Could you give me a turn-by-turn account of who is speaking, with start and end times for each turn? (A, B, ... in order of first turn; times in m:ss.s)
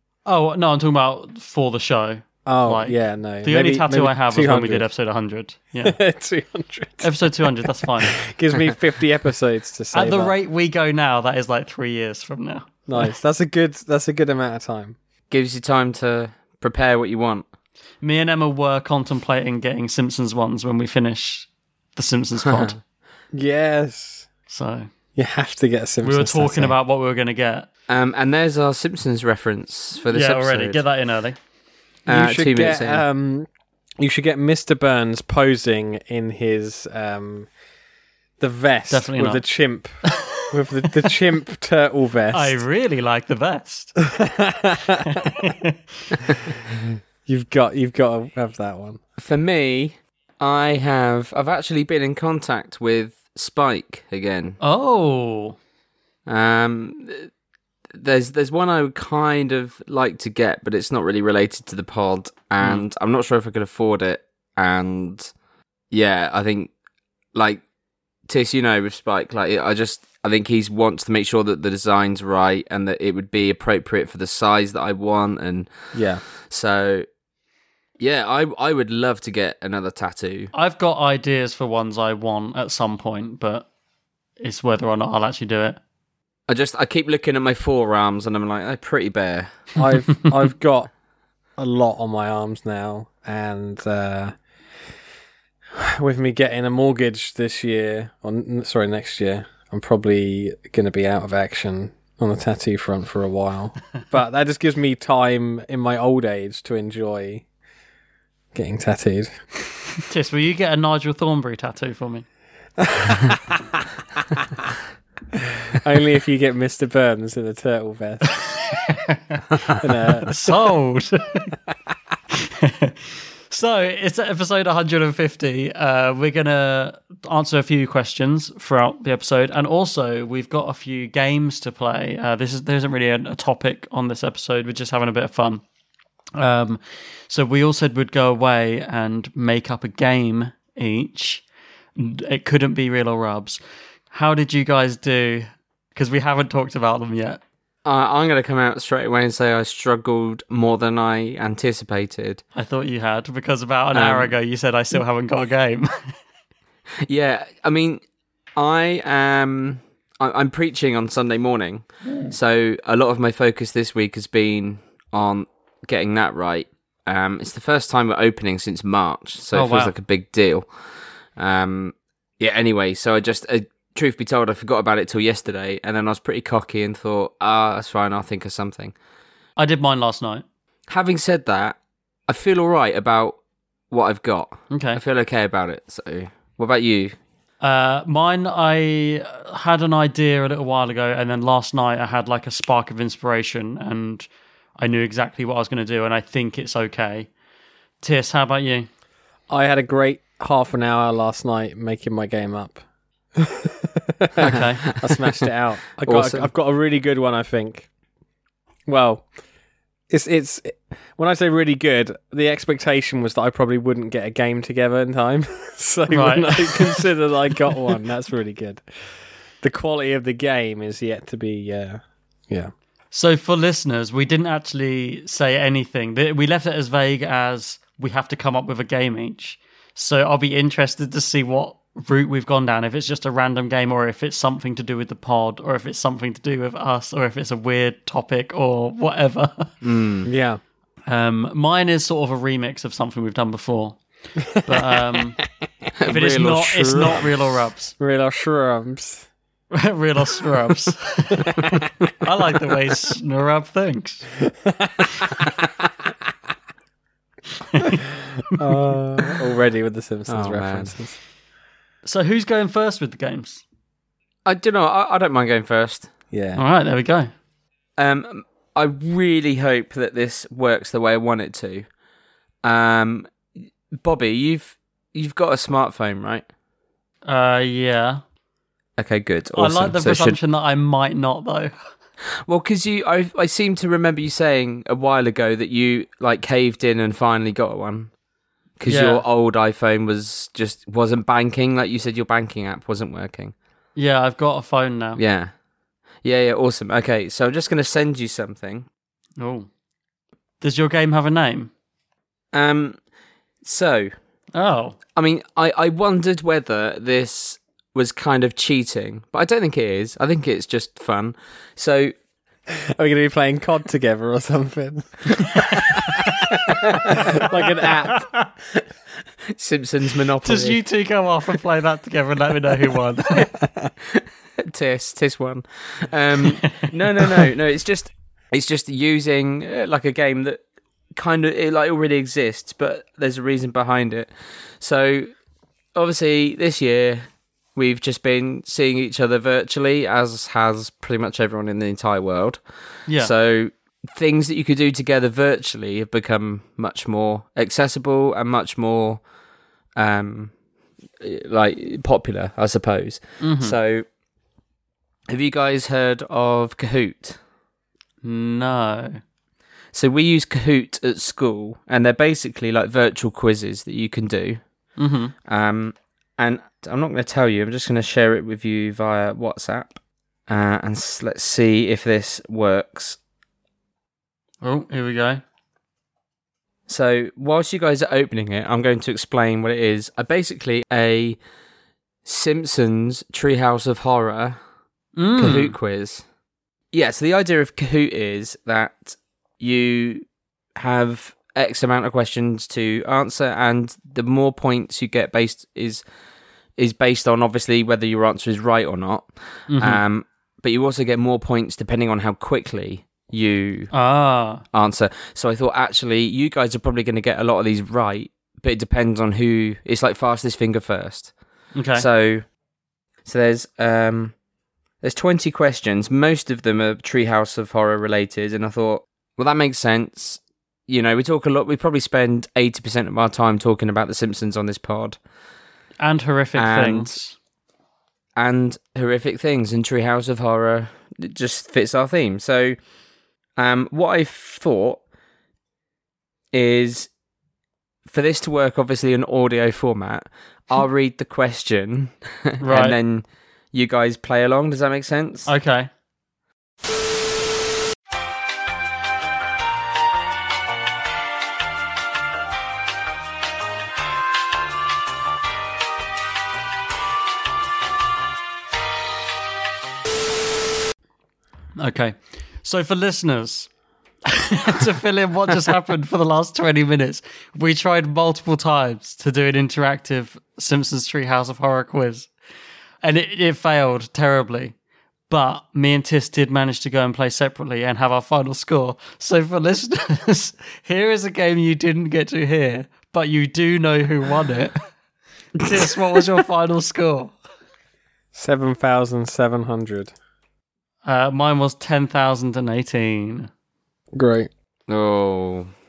0:00.2-0:06.0 A
0:02.4-0:04.9 B
0:05.8-0:10.4 B
0:07.0-0:08.2 A
0:09.9-0:13.1 A
0:12.9-0:15.0 B
0:15.3-0:17.4 C
0:18.0-0:22.8 A
0:22.4-0:22.7 C
0:23.3-0:24.3 B
0:24.5-0:24.9 A
0:25.2-0:26.8 B
0:26.0-0:27.7 A
0:27.9-0:30.8 C
0:30.1-0:31.4 A
0:32.1-0:33.0 C
0:32.1-0:33.5 B
0:34.0-0:37.5 B
0:38.4-0:39.9 B
0:38.9-0:39.4 A
0:40.5-0:42.6 B
0:42.3-0:43.9 A
0:44.1-0:45.3 B
0:45.0-0:45.8 A
0:47.2-0:49.0 B
0:49.2-0:54.6 C
0:54.6-0:55.6 A
0:56.3-0:57.3 C
0:57.9-1:05.3 C
1:05.9-1:06.7 C
1:07.3-1:07.6 C
1:08.3-1:15.7 C
1:15.9-1:16.2 B
1:16.5-1:17.0 C
1:18.0-1:20.5 C
1:20.5-1:23.7 A
1:24.4-1:25.8 A
1:26.5-1:29.5 C
1:29.8-1:30.9 B
1:31.6-1:34.4 B
1:35.8-1:47.4 B
1:48.5-1:49.4 B
1:50.1-1:52.2 A
1:52.8-1:53.6 B
1:55.7-1:58.3 B
1:58.3-1:59.4 A
1:59.8-2:00.5 B
2:00.2-2:01.5 A
2:02.3-2:15.6 A
2:16.4-2:21.4 A
2:22.0-2:23.6 A
2:24.1-2:27.4 A
2:27.8-2:32.4 C
2:32.5-2:35.9 A
2:33.9-2:34.4 C
2:37.0-2:38.0 C
2:38.6-2:50.7 C
2:49.5-2:49.9 A
2:51.4-2:58.9 C
2:59.6-3:00.4 A
3:00.9-3:01.8 C
3:02.3-3:03.4 C
3:03.9-3:07.2 C
3:04.7-3:05.0 A
3:07.6-3:17.3 A
3:18.0-3:18.9 A
3:19.5-3:22.8 B
3:23.4-3:27.9 B
3:24.4-3:25.2 C
3:24.4-3:24.8 A
3:26.0-3:26.5 C
3:28.8-3:29.3 B
3:30.1-3:38.8 B
3:36.1-3:37.0 A
3:39.6-3:42.7 B
3:43.1-3:59.7 A
3:59.8-4:00.3 C
4:00.2-4:00.6 B
4:01.1-4:04.0 A
4:04.4-4:05.3 B
4:04.6-4:05.4 A
4:06.0-4:07.3 C
4:06.1-4:07.9 A
4:08.0-4:09.3 B
4:09.7-4:14.3 A
4:11.4-4:11.8 B
4:14.7-4:15.1 B
4:17.7-4:18.0 A
4:18.5-4:21.2 B
4:20.3-4:20.9 C
4:22.0-4:23.6 A
4:24.4-4:26.1 C
4:26.3-4:26.6 B
4:26.6-4:27.3 A
4:28.0-4:31.8 C
4:32.6-4:33.3 C
4:34.0-4:36.4 C
4:37.2-4:38.2 A
4:39.0-4:40.4 C
4:39.5-4:41.7 A
4:42.4-4:48.1 C
4:48.8-4:53.5 C
4:48.8-4:49.2 A
4:54.0-4:55.2 A
4:55.2-4:55.5 C
4:56.2-4:58.9 C
4:59.4-4:59.7 A
5:00.6-5:01.7 A
5:02.5-5:03.0 C
5:03.6-5:04.1 C
5:04.5-5:05.0 A
5:05.2-5:12.1 C
5:13.0-5:15.6 B
5:15.4-5:15.7 A
5:16.6-5:17.0 C
5:17.1-5:18.3 B
5:18.1-5:18.4 A
5:19.5-5:20.8 C
5:20.4-5:23.5 A
5:24.1-5:30.6 C
5:26.4-5:26.9 A
5:31.2-5:35.3 C
5:35.9-5:42.6 C
5:43.1-5:43.3 A
5:43.2-5:49.2 C
5:50.0-5:50.5 C
5:51.2-5:54.0 C
5:53.4-5:53.7 A
5:55.3-5:57.4 C
5:58.2-5:59.2 A
5:59.9-6:04.6 C
6:05.0-6:05.3 A
6:05.5-6:13.2 C
6:14.6-6:15.4 A
6:16.9-6:21.4 C
6:22.2-6:24.6 C
6:25.2-6:25.7 A
6:25.4-6:26.2 C
6:26.9-6:30.2 C
6:30.8-6:36.0 C
6:36.8-6:43.9 C
6:39.7-6:40.0 A
6:43.9-6:44.6 A
6:44.7-6:51.3 C
6:51.7-6:52.0 A
6:51.9-6:52.4 C
6:53.2-6:54.3 C
6:55.0-7:05.2 C
7:06.0-7:07.4 A
7:06.5-7:07.1 C
7:08.4-7:12.8 C
7:13.6-7:15.0 C
7:16.5-7:17.1 C
7:18.1-7:25.5 C
7:22.6-7:23.0 A
7:25.4-7:25.9 A
7:41.8-7:43.7 A
7:44.3-7:52.3 A
7:53.0-7:54.7 A
7:55.3-8:04.8 A
8:05.6-8:07.3 A
8:08.3-8:10.1 B
8:11.0-8:13.5 A
8:14.1-8:14.5 B
8:14.9-8:15.7 C